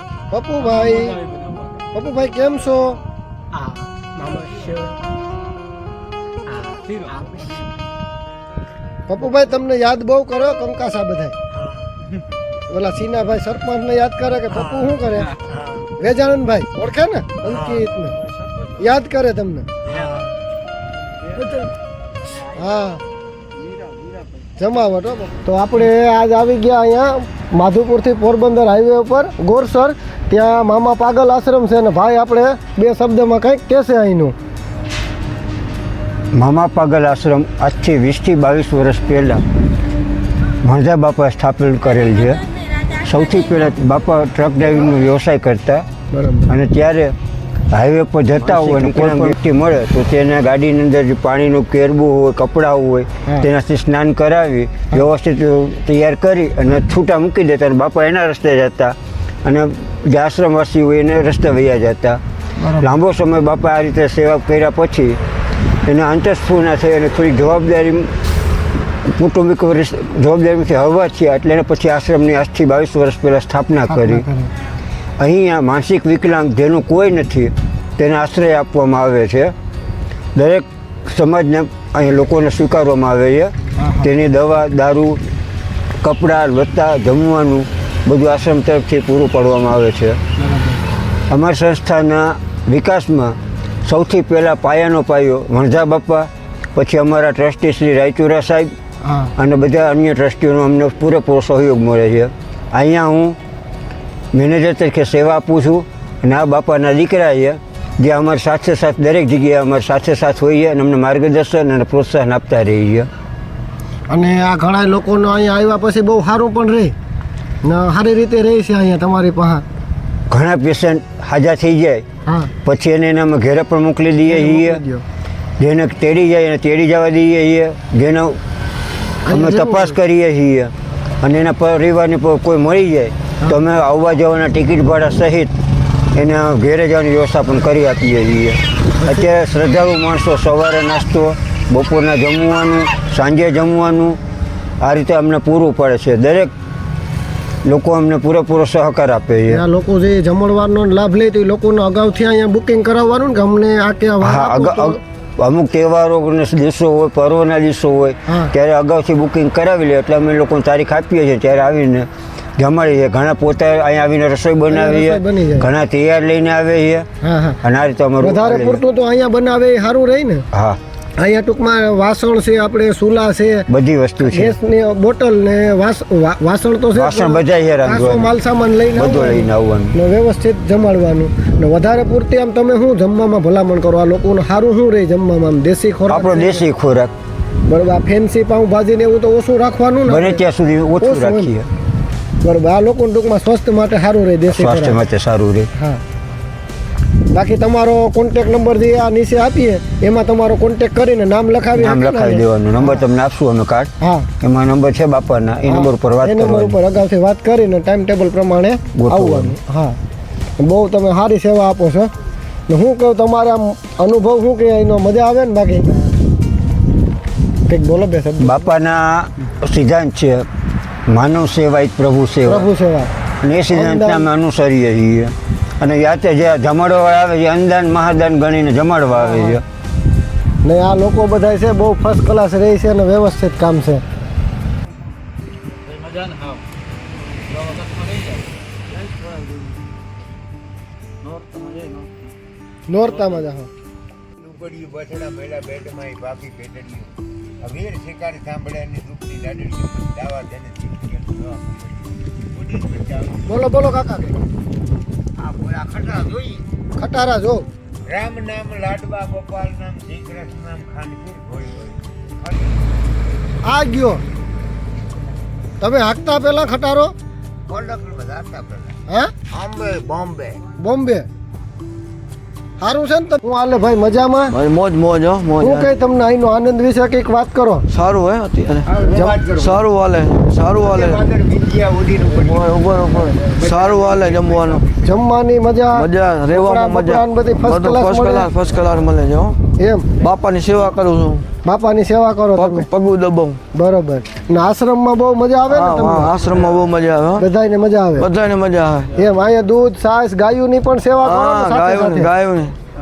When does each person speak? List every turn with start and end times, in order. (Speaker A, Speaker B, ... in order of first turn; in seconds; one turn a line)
Speaker A: 0.3-1.2
Speaker B: 0.7-1.8
Speaker A: 1.9-3.0
Speaker B: 3.5-5.0
Speaker B: 6.5-7.7
Speaker A: 9.1-11.4
Speaker C: 11.5-11.9
Speaker A: 12.7-15.3
Speaker C: 14.5-15.9
Speaker A: 16.0-18.2
Speaker C: 17.4-17.8
Speaker D: 18.2-18.7
Speaker A: 18.8-19.7
Speaker C: 19.9-20.3
Speaker A: 22.4-23.0
Speaker D: 23.7-24.2
Speaker A: 24.6-34.4
Speaker E: 36.3-39.4
Speaker E: 40.6-45.9
Speaker A: 46.1-46.6
Speaker E: 46.5-47.1
Speaker E: 47.7-62.2
Speaker A: 62.6-62.9
Speaker E: 62.8-65.2
Speaker E: 65.9-68.1
Speaker E: 69.1-74.3
Speaker A: 73.9-74.5
Speaker E: 75.2-79.5
Speaker E: 80.3-85.2
Speaker A: 83.8-84.1
Speaker E: 86.0-90.2
Speaker A: 90.4-90.8
Speaker E: 91.3-98.7
Speaker A: 99.0-99.3
Speaker E: 99.4-103.4
Speaker E: 104.3-113.1
Speaker A: 114.1-116.9
Speaker A: 117.6-119.7
Speaker E: 120.3-122.0
Speaker A: 122.3-122.5
Speaker E: 122.6-124.8
Speaker A: 124.3-125.0
Speaker E: 125.6-128.4
Speaker A: 129.2-130.0
Speaker E: 129.3-135.5
Speaker E: 136.1-144.2
Speaker A: 139.0-139.3
Speaker E: 144.8-146.5
Speaker E: 147.7-149.6
Speaker A: 149.5-155.0
Speaker E: 154.2-167.1
Speaker A: 158.3-158.5
Speaker A: 164.7-165.7
Speaker A: 167.2-167.6
Speaker E: 167.6-168.8
Speaker A: 168.2-170.4
Speaker E: 170.5-170.8
Speaker A: 171.2-173.7
Speaker E: 173.7-174.6
Speaker A: 174.2-186.7
Speaker E: 176.9-178.3
Speaker E: 178.9-180.0
Speaker E: 186.1-187.1
Speaker A: 187.7-190.4
Speaker E: 190.1-191.7
Speaker A: 191.0-191.5
Speaker A: 192.4-195.0
Speaker E: 194.5-195.7
Speaker A: 195.8-196.0
Speaker A: 197.3-203.1
Speaker E: 201.7-206.8
Speaker A: 204.0-204.3
Speaker A: 205.7-210.0
Speaker E: 208.9-209.6
Speaker A: 210.6-212.1
Speaker A: 212.7-216.0
Speaker A: 217.7-218.7
Speaker E: 218.4-220.5
Speaker E: 221.1-222.7
Speaker A: 222.4-223.1
Speaker E: 223.4-229.6
Speaker A: 223.7-224.3
Speaker A: 229.3-229.6
Speaker A: 230.6-234.0
Speaker D: 238.9-239.8
Speaker D: 241.2-242.2
Speaker A: 242.9-243.7
Speaker C: 244.4-253.4
Speaker A: 253.5-254.4
Speaker C: 255.4-256.6
Speaker A: 257.0-257.7
Speaker C: 258.1-262.8
Speaker A: 263.6-264.2
Speaker A: 265.8-267.1
Speaker C: 267.7-269.0
Speaker A: 269.1-269.4
Speaker C: 269.5-270.6
Speaker A: 270.8-271.3
Speaker A: 272.8-274.6
Speaker D: 274.5-275.9
Speaker A: 275.6-277.9
Speaker D: 277.9-281.3
Speaker C: 278.9-279.8
Speaker A: 279.0-279.4
Speaker C: 280.7-282.7
Speaker D: 282.3-284.9
Speaker C: 283.3-285.1
Speaker A: 285.0-288.5
Speaker D: 285.9-289.6
Speaker A: 289.8-290.1
Speaker D: 290.2-291.5
Speaker A: 291.6-292.9
Speaker D: 292.6-293.6
Speaker A: 293.7-296.5
Speaker D: 295.7-297.4
Speaker A: 297.4-298.3
Speaker D: 298.2-299.1
Speaker A: 299.1-302.3
Speaker D: 301.2-302.8